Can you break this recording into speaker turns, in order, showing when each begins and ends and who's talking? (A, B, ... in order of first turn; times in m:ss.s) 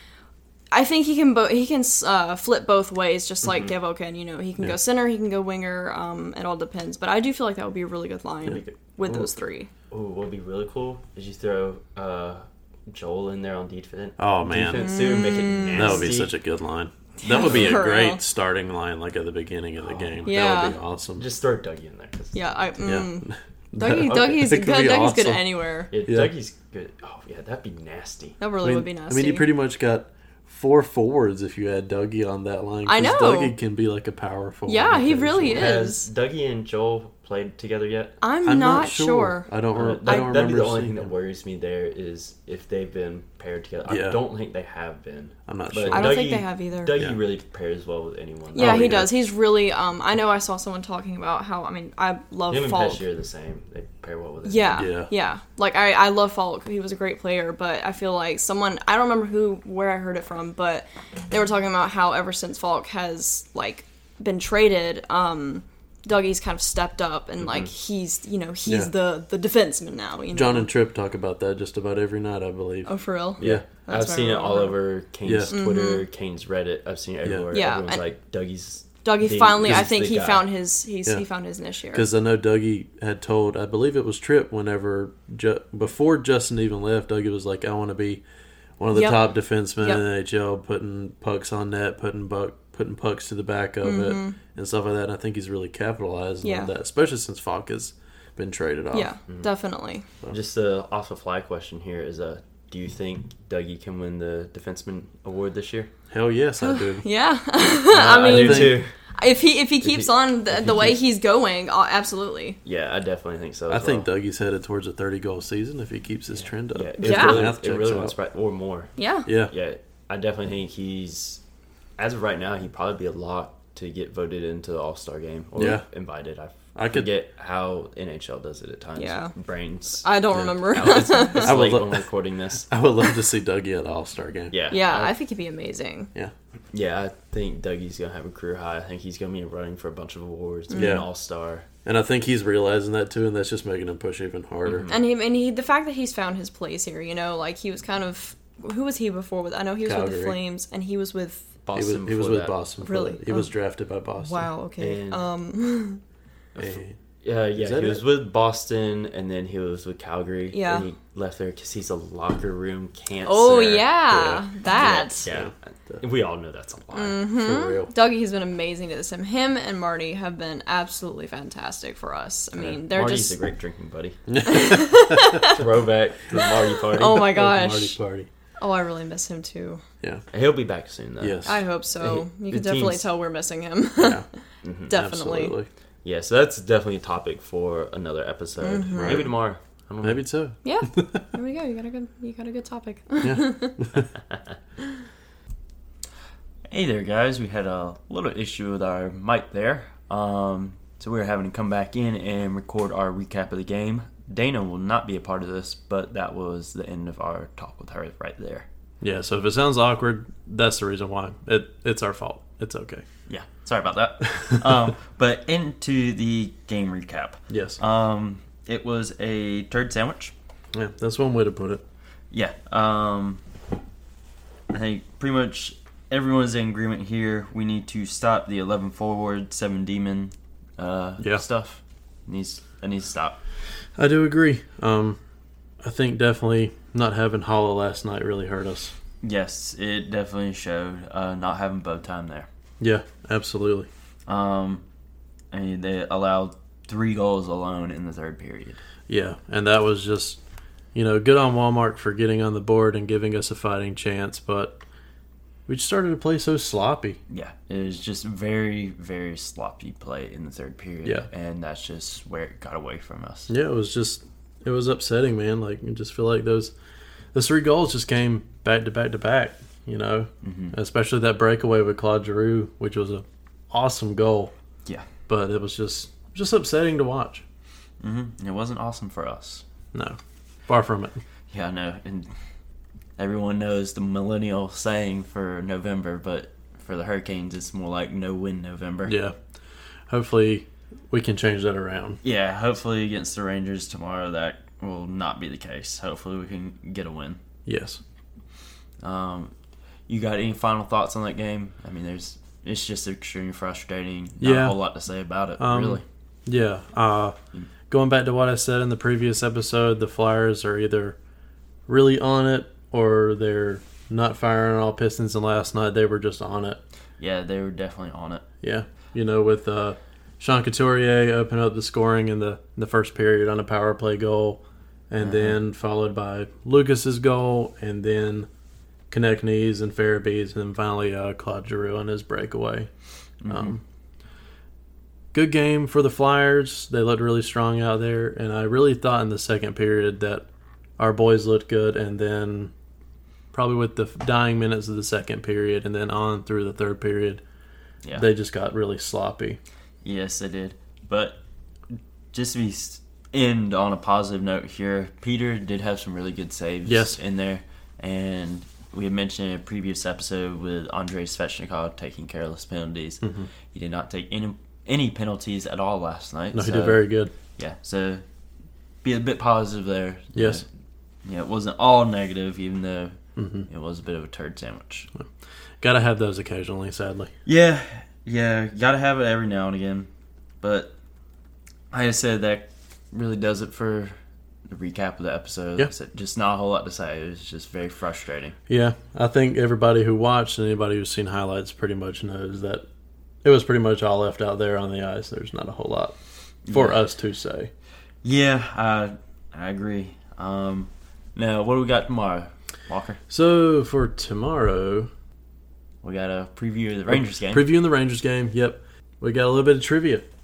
0:00.7-0:09.7 A
0:03.4-0:03.7 B
0:08.5-0:09.3 B
0:09.9-0:16.3 B
0:14.2-0:14.9 C
0:14.7-0:16.2 A
0:15.7-0:21.2 C
0:17.2-0:18.2 A
0:17.4-0:17.8 B
0:19.8-0:20.4 B
0:20.2-0:20.8 A
0:21.2-0:22.6 B
0:22.3-0:25.9 A
0:22.8-0:25.4 C
0:25.9-0:28.4 B
0:26.0-0:26.3 C
0:28.4-0:29.4 A
0:28.6-0:35.7 C
0:32.8-0:33.6 A
0:34.6-0:36.1 A
0:35.4-0:38.2 B
0:38.2-0:39.5 A
0:38.4-0:41.1 C
0:39.7-0:49.0 B
0:40.0-0:40.3 A
0:43.9-0:44.2 C
0:45.5-0:46.2 C
0:45.9-0:46.9 A
0:48.5-0:53.0 A
0:48.6-0:49.1 C
0:52.5-0:54.9 B
0:54.4-1:10.7 A
0:54.8-0:55.1 C
1:07.4-1:07.7 B
1:08.6-1:08.9 C
1:10.3-1:13.6 C
1:12.8-1:14.8 A
1:13.4-1:20.4 B
1:15.2-1:15.5 C
1:15.5-1:16.0 A
1:17.2-1:17.6 C
1:17.5-1:18.0 A
1:19.0-1:22.1 A
1:21.9-1:28.2 C
1:28.8-1:39.1 C
1:28.9-1:30.0 A
1:33.8-1:34.4 A
1:36.4-1:36.7 A
1:38.9-1:40.0 A
1:40.3-1:45.9 B
1:46.1-1:47.0 C
1:46.6-1:52.6 A
1:47.9-1:48.9 B
1:48.1-1:48.8 C
1:49.8-1:51.0 B
1:52.6-1:54.0 B
1:53.7-1:58.1 C
1:56.3-1:58.9 B
1:57.0-1:57.5 A
1:59.0-1:59.3 A
1:59.2-1:59.5 C
1:59.4-2:01.4 B
2:02.0-2:12.7 B
2:05.6-2:05.8 C
2:06.7-2:07.1 C
2:09.0-2:09.3 A
2:10.0-2:11.6 A
2:11.4-2:12.0 C
2:12.7-2:14.5 C
2:14.5-2:15.1 B
2:14.7-2:16.1 A
2:16.7-2:21.6 B
2:20.7-2:21.0 A
2:20.7-2:21.1 C
2:21.8-2:24.9 C
2:24.6-2:25.0 B
2:24.9-2:31.5 A
2:29.8-2:30.4 C
2:31.6-2:32.6 B
2:31.7-2:34.5 C
2:32.8-2:33.5 A
2:34.2-2:36.0 A
2:34.8-2:35.2 B
2:36.6-2:43.9 B
2:36.6-2:36.9 C
2:37.6-2:38.0 C
2:40.5-2:40.9 A
2:43.2-2:45.3 A
2:44.1-2:44.4 C
2:44.7-2:47.2 B
2:45.2-2:46.0 C
2:46.9-2:53.3 A
2:47.4-2:47.9 C
2:52.6-2:54.7 B
2:54.3-2:55.3 C
2:54.4-2:55.5 A
2:55.4-2:57.3 B
2:56.7-2:58.0 A
2:57.2-2:58.3 C
2:58.6-2:59.8 A
3:00.3-3:03.1 B
3:01.2-3:01.6 C
3:01.4-3:05.6 A
3:04.0-3:04.2 C
3:04.6-3:04.9 B
3:04.9-3:05.7 C
3:06.0-3:10.2 B
3:08.6-3:09.3 A
3:08.9-3:09.3 C
3:10.0-3:11.2 C
3:10.6-3:13.8 A
3:13.2-3:14.0 C
3:16.7-3:28.7 B
3:29.0-3:33.0 C
3:33.3-3:40.3 B
3:37.5-3:37.8 C
3:40.7-3:41.8 C
3:42.3-3:43.4 B
3:44.7-3:53.4 B
3:54.0-3:55.2 C
3:55.8-3:58.9 C
3:59.2-4:02.5 B
4:02.8-4:03.9 C
4:04.3-4:04.8 B
4:05.5-4:08.8 B
4:09.1-4:10.4 C
4:10.9-4:14.8 C
4:15.7-4:17.2 C
4:17.3-4:23.5 B
4:23.5-4:26.7 C
4:27.3-4:34.5 C
4:30.4-4:30.7 B
4:35.3-4:37.4 C
4:38.0-4:39.6 B
4:40.7-4:41.2 C
4:41.5-4:42.3 B
4:43.2-4:49.1 B
4:49.1-4:49.4 C
4:50.1-4:52.2 C
4:52.2-4:57.4 B
4:57.6-4:58.0 C
4:59.0-4:59.5 B
5:00.1-5:06.0 B
5:04.4-5:04.8 C
5:05.6-5:07.3 C
5:07.9-5:11.2 C
5:11.9-5:16.8 C
5:17.2-5:18.4 B
5:18.6-5:28.5 C
5:25.2-5:25.6 B
5:29.1-5:32.9 C
5:33.4-5:33.8 B
5:33.5-5:33.8 C
5:35.3-5:40.5 C
5:41.0-5:42.7 C
5:43.5-5:47.4 C
5:48.2-5:49.6 C
5:50.0-5:51.4 B
5:52.3-6:08.2 B
5:56.8-5:57.2 C
6:03.2-6:03.5 C
6:06.5-6:07.3 C
6:09.0-6:10.7 B
6:10.3-6:10.6 C
6:11.2-6:15.1 B
6:13.4-6:13.7 C
6:15.8-6:17.3 C
6:17.4-6:20.1 B
6:20.6-6:20.9 B
6:21.9-6:24.2 B
6:24.7-6:28.6 B
6:28.7-6:32.8 C
6:33.4-6:36.2 C
6:36.6-6:37.0 B
6:36.7-6:37.7 C
6:38.2-6:43.2 B
6:43.3-6:45.1 C
6:46.0-6:47.7 B
6:47.1-6:50.2 C